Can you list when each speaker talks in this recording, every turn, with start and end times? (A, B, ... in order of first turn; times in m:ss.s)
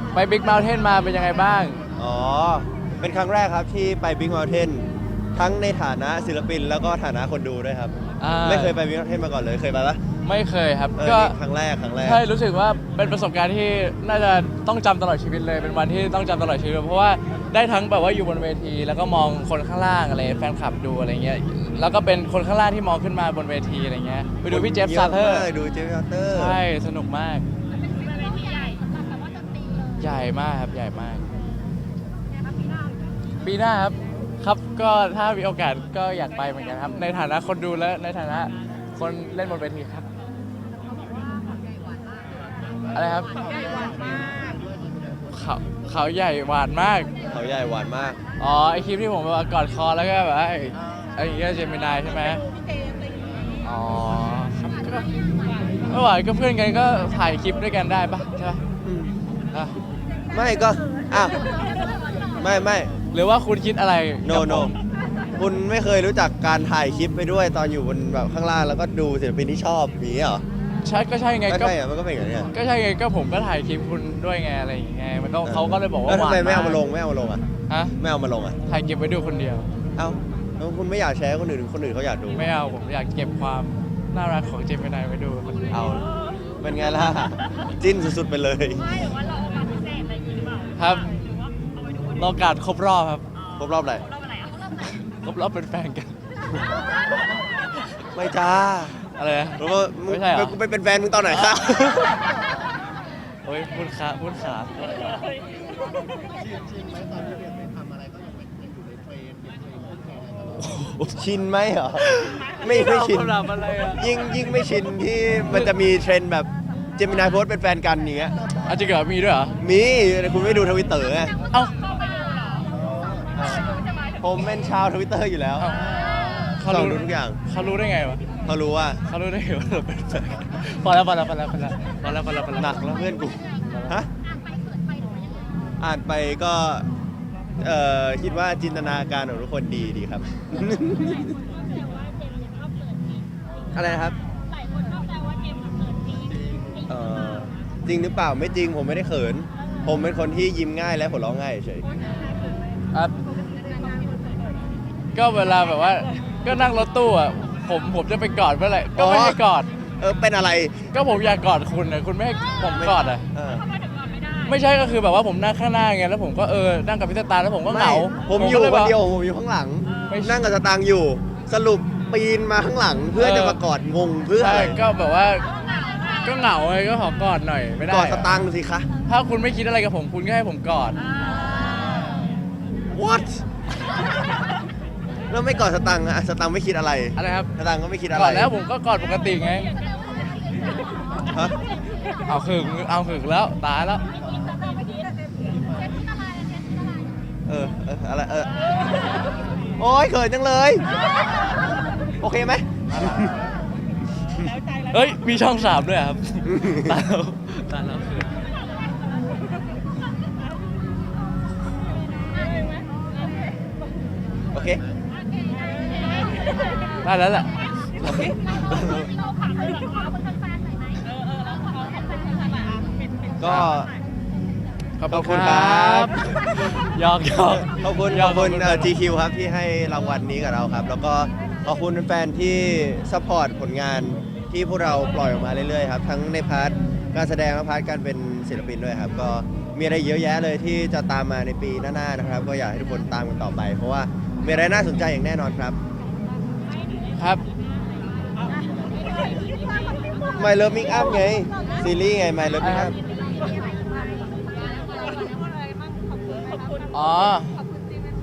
0:00.1-0:01.8 A
0:02.0-0:10.0 B
0:08.2-0:08.7 A
0:10.2-0:11.3 A
0:11.0-0:12.2 B
0:12.0-0:25.5 A
0:24.5-0:26.6 B
0:26.3-0:27.4 A
0:28.1-0:29.8 C
0:30.0-0:31.2 A
0:33.4-0:40.0 A
0:42.9-0:43.3 A
0:45.3-0:47.1 A
0:47.3-0:48.2 B
0:48.4-0:52.4 A
0:53.6-0:55.1 A
0:55.9-0:58.6 A
0:58.8-0:59.1 B
1:00.3-1:01.6 B
1:02.4-1:02.9 B
1:03.1-1:04.7 A
1:04.2-1:04.7 B
1:05.4-1:10.4 B
1:10.8-1:11.7 A
1:11.5-1:12.5 B
1:12.5-1:16.8 A
1:15.4-1:17.4 B
1:17.7-1:18.0 A
1:18.0-1:18.6 B
1:18.6-1:19.7 A
1:20.0-1:22.4 B
1:22.4-1:25.8 A
1:25.7-1:26.1 B
1:26.6-1:28.9 B
1:30.8-1:31.1 A
1:32.2-1:33.2 A
1:33.6-1:34.0 B
1:34.8-1:36.2 A
1:38.1-1:38.9 B
1:39.0-1:40.5 A
1:39.6-1:42.2 B
1:41.3-1:42.0 A
1:43.4-1:45.2 A
1:50.6-1:51.1 A
1:51.1-1:53.4 B
1:52.0-1:54.1 A
1:53.9-1:58.3 B
1:58.6-1:59.6 A
1:59.6-2:01.3 B
2:03.4-2:05.7 B
2:05.6-2:08.2 A
2:06.6-2:07.4 B
2:08.4-2:09.0 B
2:09.0-2:12.9 A
2:12.5-2:14.1 B
2:13.7-2:13.9 A
2:14.6-2:15.2 C
2:15.8-2:16.9 B
2:17.6-2:21.4 B
2:23.7-2:24.2 B
2:26.9-2:31.9 B
2:35.1-2:39.7 A
2:39.0-2:39.4 B
2:40.0-2:40.8 B
2:40.9-2:43.3 A
2:42.8-2:43.7 B
2:44.4-2:49.0 A
2:47.7-2:54.8 B
2:50.1-2:50.4 A
2:53.2-2:53.6 A
2:54.4-2:55.5 A
2:56.1-2:58.4 A
2:57.9-2:58.9 B
2:59.1-3:01.0 A
3:02.9-3:03.4 B
3:05.3-3:08.5 B
3:07.2-3:07.5 A
3:08.1-3:09.7 A
3:11.3-3:11.6 B
3:12.2-3:14.0 A
3:17.5-3:18.5 B
3:19.8-3:20.8 B
3:22.2-3:23.4 B
3:24.9-3:28.3 A
3:26.5-3:26.9 B
3:34.5-3:34.8 B
3:37.0-3:38.3 A
3:38.0-3:39.1 B
3:43.4-3:43.9 B
3:45.0-3:48.9 A
3:45.1-3:46.2 B
3:47.7-4:05.8 B
4:07.2-4:07.4 A
4:10.3-4:13.0 B
4:12.6-4:12.9 A
4:13.3-4:15.4 C
4:16.9-4:17.6 A